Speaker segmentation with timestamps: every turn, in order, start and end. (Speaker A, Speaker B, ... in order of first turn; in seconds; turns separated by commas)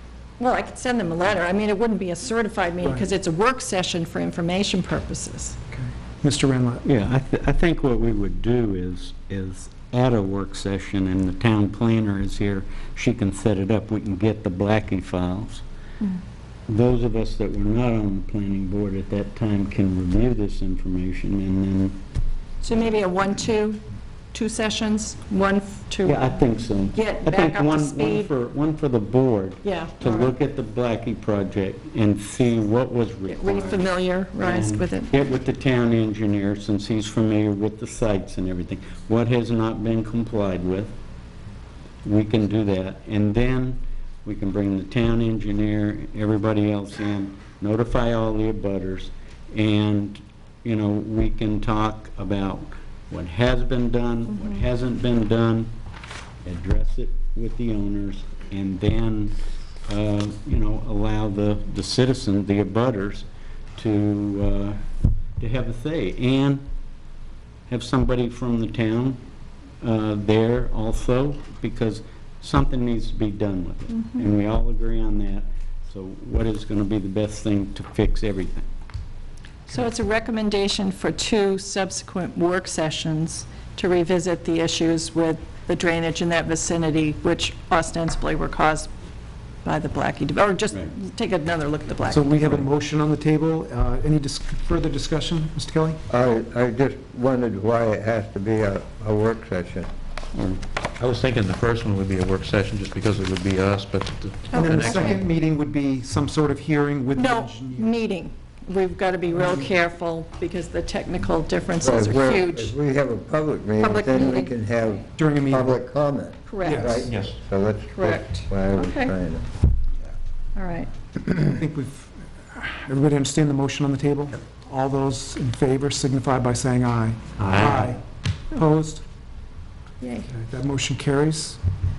Speaker A: 0.4-5.6, Speaker B: 5.7-6.8, Speaker C: 6.8-15.6, Speaker C: 16.7-22.0, Speaker A: 22.6-23.8, Speaker A: 24.3-26.3, Speaker C: 26.1-33.9, Speaker A: 26.9-28.3, Speaker A: 29.6-30.4, Speaker A: 33.3-35.2, Speaker C: 34.4-41.0, Speaker C: 42.0-55.7, Speaker A: 54.3-54.6, Speaker C: 56.4-59.3, Speaker C: 59.9-63.3, Speaker C: 63.8-64.8, Speaker C: 65.4-66.7, Speaker C: 67.7-69.2, Speaker C: 69.8-78.7, Speaker A: 74.0-74.2, Speaker A: 79.7-88.9, Speaker A: 89.6-92.5, Speaker B: 92.1-96.0, Speaker D: 96.1-99.9, Speaker C: 100.3-100.6, Speaker E: 101.0-105.2, Speaker A: 104.5-105.2, Speaker B: 104.5-108.0, Speaker A: 107.2-112.7, Speaker B: 109.4-109.7, Speaker D: 111.8-119.5, Speaker A: 113.8-114.5, Speaker B: 115.2-115.8, Speaker A: 116.5-117.1, Speaker B: 116.6-117.1, Speaker E: 117.1-117.4, Speaker A: 117.9-119.1, Speaker A: 120.6-120.9, Speaker B: 121.4-128.0, Speaker E: 127.4-127.9, Speaker B: 128.5-129.0, Speaker A: 130.0-130.3, Speaker B: 130.3-131.6